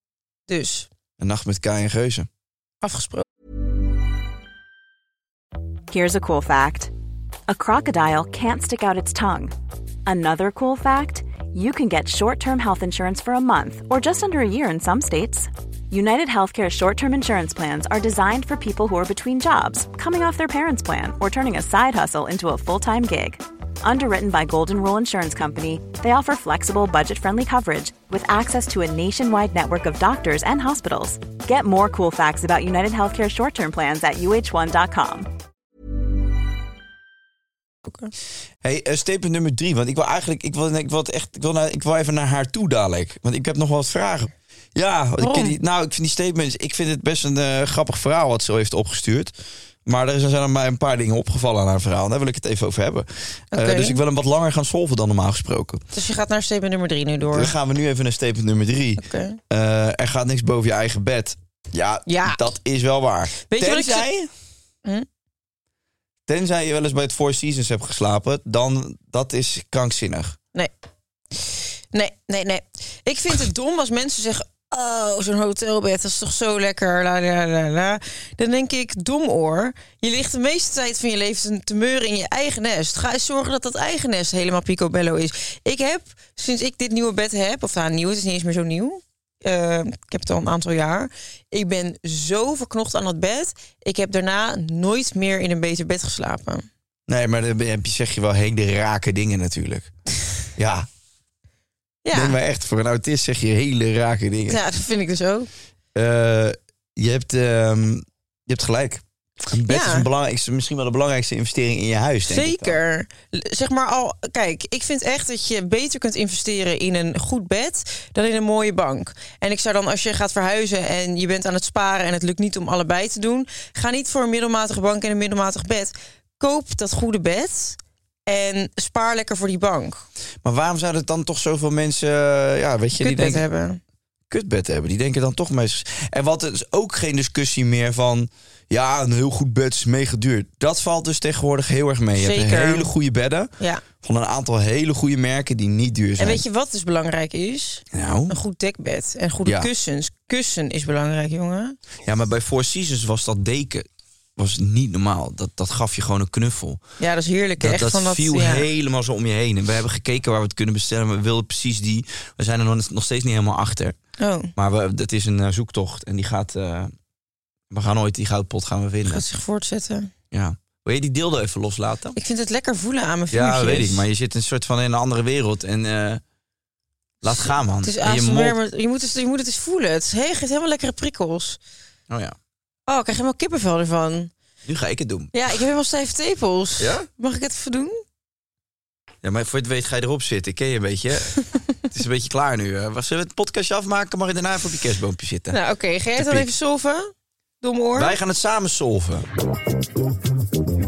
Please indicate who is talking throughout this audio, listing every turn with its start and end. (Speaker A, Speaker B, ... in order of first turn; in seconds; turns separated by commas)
Speaker A: 0.5-0.9, Speaker B: 1.2-2.3, Speaker A: 2.8-3.2, Speaker C: 5.9-6.9, Speaker C: 7.5-9.5, Speaker C: 10.1-35.3, Speaker A: 37.8-38.1, Speaker B: 38.6-49.3, Speaker A: 45.2-45.5, Speaker B: 49.8-55.8, Speaker A: 53.5-54.0, Speaker A: 55.9-57.5, Speaker B: 57.3-64.3, Speaker A: 59.0-59.4, Speaker A: 62.1-62.4, Speaker A: 63.4-64.1, Speaker B: 66.3-70.4, Speaker A: 71.3-96.7, Speaker B: 97.1-99.9, Speaker B: 100.5-100.9, Speaker A: 102.0-102.4, Speaker B: 102.1-104.6, Speaker A: 104.5-105.5, Speaker B: 105.9-112.8, Speaker A: 109.7-110.0, Speaker A: 112.2-130.0, Speaker B: 130.4-133.4, Speaker A: 133.0-133.8, Speaker B: 134.3-146.4, Speaker A: 142.2-142.9, Speaker A: 143.6-143.8, Speaker A: 146.2-151.8, Speaker B: 147.9-148.3, Speaker B: 152.0-156.8, Speaker A: 157.0-158.7, Speaker B: 157.6-163.9, Speaker A: 164.2-164.5, Speaker B: 164.6-166.9, Speaker B: 167.7-169.2, Speaker A: 169.1-170.1, Speaker B: 170.3-172.2, Speaker A: 172.2-174.0, Speaker B: 173.3-176.2, Speaker B: 177.2-178.6, Speaker A: 177.8-181.6, Speaker B: 182.1-182.3, Speaker A: 182.9-184.3, Speaker B: 184.6-185.3, Speaker A: 185.3-188.0, Speaker B: 186.8-187.1, Speaker B: 189.2-191.3, Speaker B: 191.9-195.6, Speaker A: 195.5-198.1, Speaker B: 196.2-196.5, Speaker B: 197.9-199.3